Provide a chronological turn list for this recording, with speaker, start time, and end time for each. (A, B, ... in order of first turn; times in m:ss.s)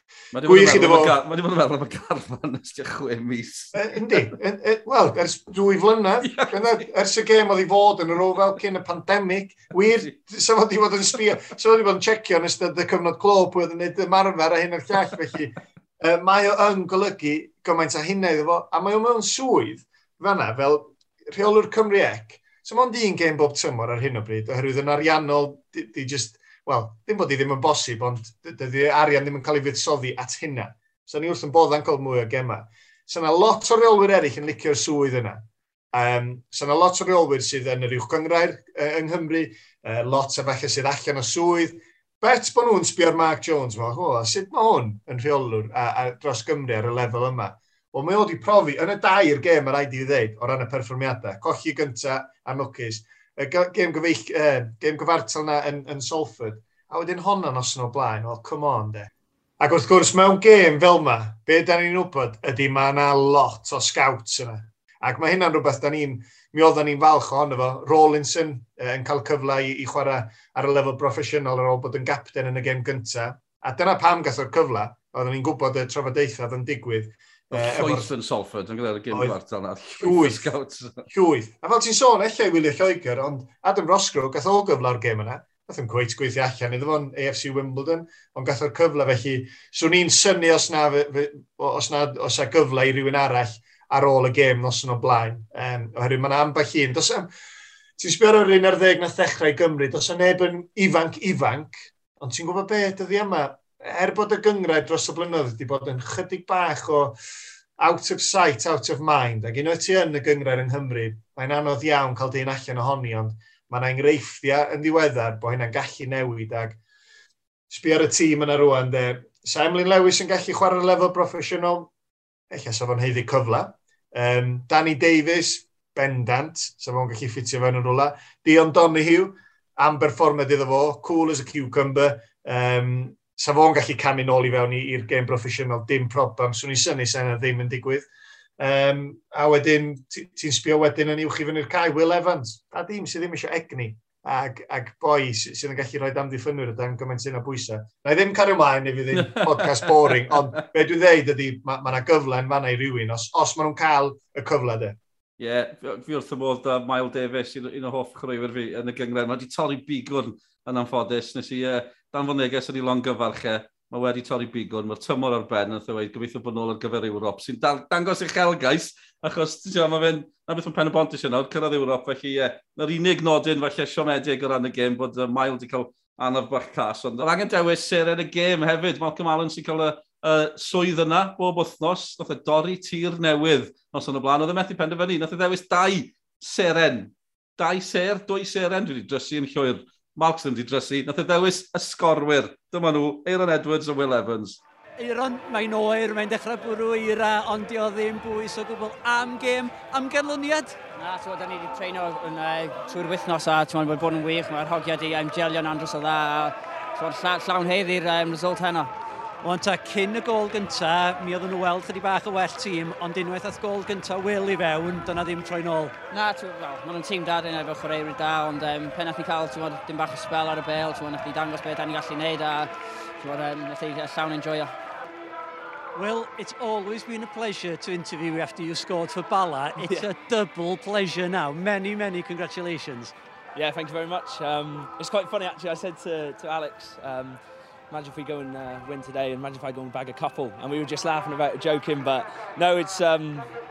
0:00.3-0:04.3 A
0:00.4-0:01.2 B
0:03.7-1:18.1 B
0:06.2-0:06.8 A
0:09.8-0:10.1 A
1:17.5-1:21.0 A
1:19.1-1:19.4 B
1:20.0-1:20.5 B
1:21.1-1:37.3 B
1:38.0-1:47.2 B
1:47.8-1:56.8 B
1:57.7-2:01.9 B
2:02.5-2:18.1 B
2:18.6-2:35.0 B
2:29.2-2:30.3 A
2:35.4-3:14.6 A
3:15.0-3:20.7 C
3:21.0-3:28.9 D
3:29.4-3:35.9 C
3:36.1-3:44.7 D
3:45.9-3:53.1 C
3:49.8-3:50.1 E
3:53.5-4:03.5 E